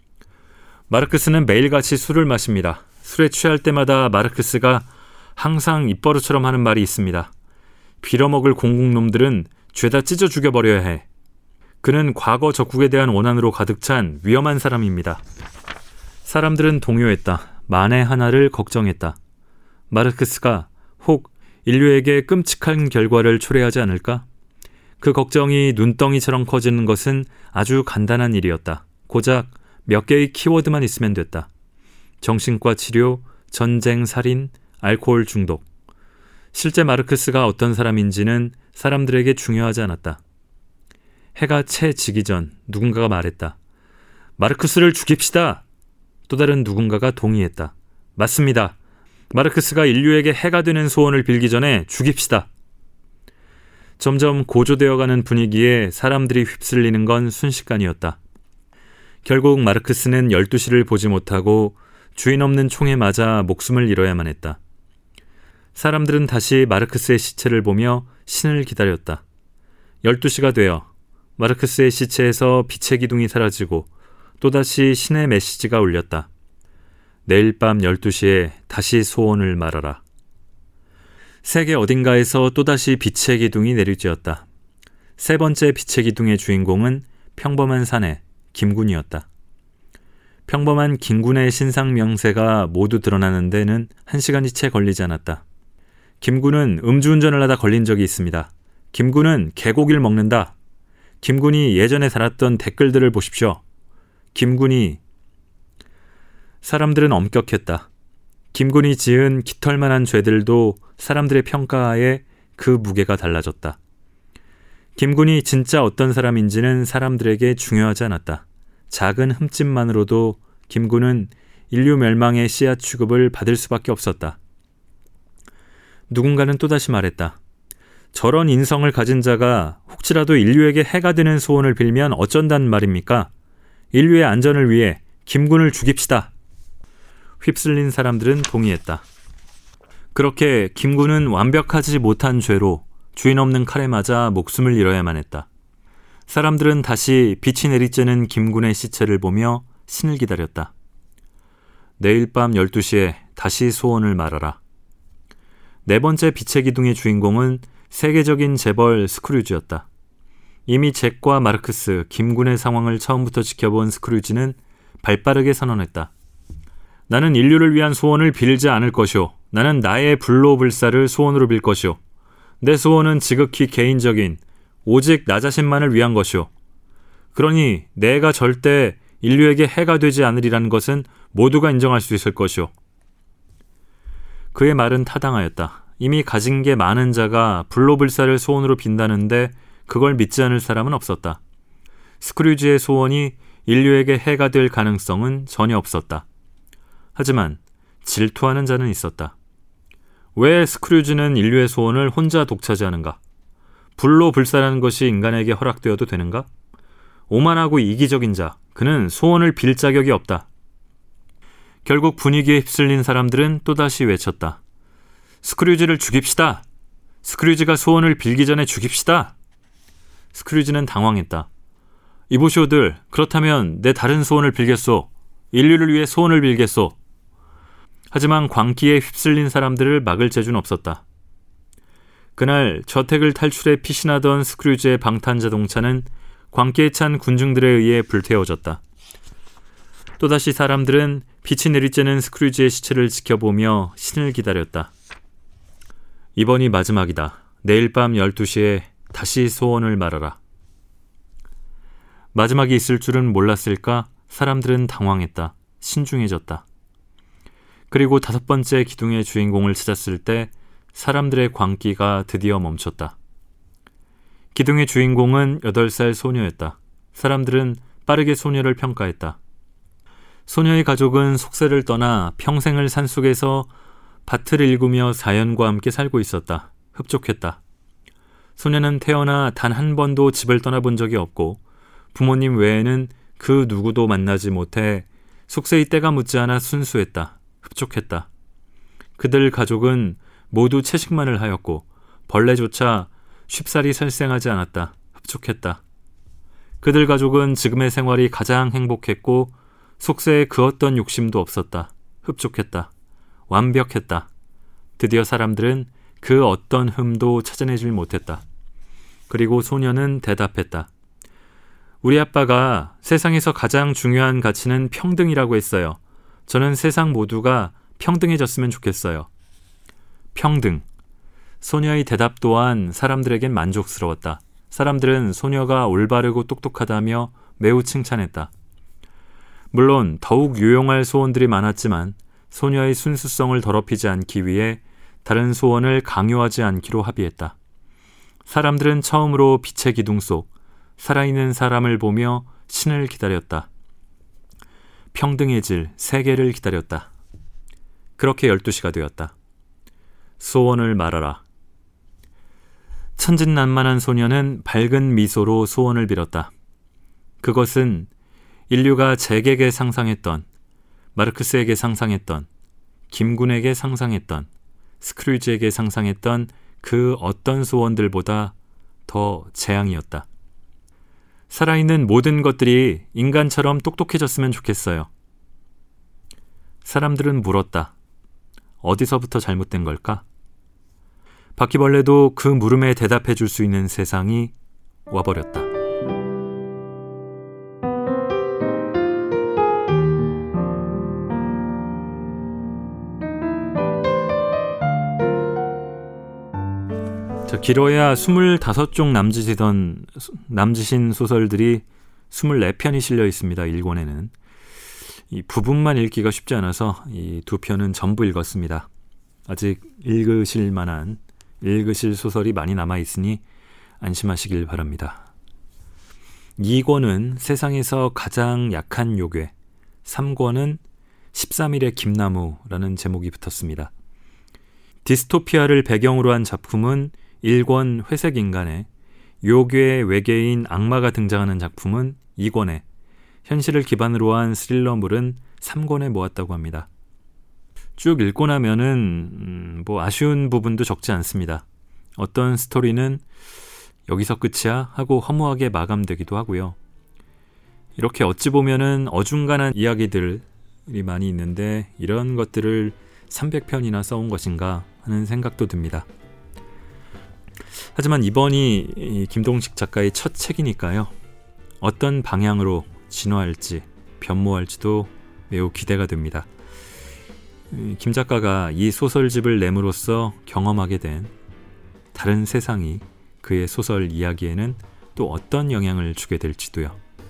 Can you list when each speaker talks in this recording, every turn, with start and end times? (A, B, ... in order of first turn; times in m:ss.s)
0:00.9-0:07.3 A
0:08.0-0:11.0 A
0:11.8-0:15.2 A
0:16.2-0:19.2 A
0:19.9-0:24.2 A
0:25.0-0:31.5 A
0:32.2-0:35.6 A
0:36.5-0:40.2 A
0:41.4-0:43.6 A
0:44.4-0:45.6 A
0:46.3-0:48.8 A
0:49.3-0:52.5 A
0:54.0-0:58.2 A
0:59.2-1:04.6 A
1:05.7-1:09.2 A
1:10.0-1:13.9 A
1:14.4-1:16.3 A
1:17.2-1:20.0 A
1:21.4-1:24.4 A
1:25.2-1:29.3 A
1:30.5-1:35.4 A
1:36.2-1:40.5 A
1:41.2-1:43.6 A
1:44.3-1:45.0 A
1:46.6-1:47.9 A
1:48.5-1:53.8 A
1:55.0-2:04.4 A
2:06.1-2:07.4 A
2:08.1-2:13.3 A
2:13.9-2:16.3 A
2:17.4-2:19.0 A
2:20.1-2:25.5 A
2:26.3-2:30.7 A
2:32.0-2:34.6 A
2:35.8-2:39.8 A
2:40.7-2:46.1 A
2:47.1-2:52.0 A
2:52.6-2:56.5 A
2:57.3-3:02.7 A
3:04.5-3:11.4 A
3:12.2-3:16.2 A
3:17.1-3:19.3 A
3:20.3-3:23.2 A
3:24.0-3:26.5 A
3:27.3-3:30.5 A
3:31.8-3:34.6 A
3:35.4-3:36.6 A
3:37.2-3:39.3 A
3:40.3-3:41.5 A
3:42.3-3:47.0 A
3:48.1-3:51.0 A
3:52.4-3:58.8 A
4:00.2-4:04.9 A
4:06.4-4:10.4 A
4:12.3-4:16.6 A
4:17.9-4:23.2 A
4:24.5-4:29.4 A
4:30.5-4:33.7 A
4:34.2-4:37.6 A
4:38.6-4:41.6 A
4:42.1-4:48.3 A
4:49.2-4:55.8 A
4:56.8-5:02.9 A
5:03.5-5:04.3 A
5:05.0-5:08.4 A
5:09.3-5:10.9 A
5:12.0-5:19.3 A
5:20.3-5:20.8 A
5:21.6-5:28.5 A
5:29.7-5:37.6 A
5:38.5-5:43.7 A
5:45.1-5:47.1 A
5:48.2-5:49.3 A
5:50.4-5:51.4 A
5:53.2-5:56.5 A
5:57.4-5:58.1 A
5:58.7-6:00.4 A
6:01.1-6:02.5 A
6:03.1-6:04.5 A
6:05.0-6:08.5 A
6:09.1-6:10.3 A
6:11.5-6:15.1 A
6:16.8-6:17.9 A
6:18.8-6:20.2 A
6:21.6-6:24.5 A
6:25.1-6:25.7 A
6:37.5-6:44.3 A
6:45.3-6:48.9 A
6:49.5-6:53.4 A
6:54.0-6:55.3 A
6:56.6-6:59.5 A
7:00.0-7:00.8 A
7:01.3-7:03.9 A
7:05.0-7:08.9 A
7:09.4-7:12.8 A
7:13.4-7:16.9 A
7:18.0-7:21.6 A
7:22.2-7:23.2 A
7:24.1-7:26.8 A
7:28.0-7:36.1 A
7:37.9-7:41.1 A
7:41.8-7:46.5 A
7:47.7-7:51.3 A
7:52.1-7:57.0 A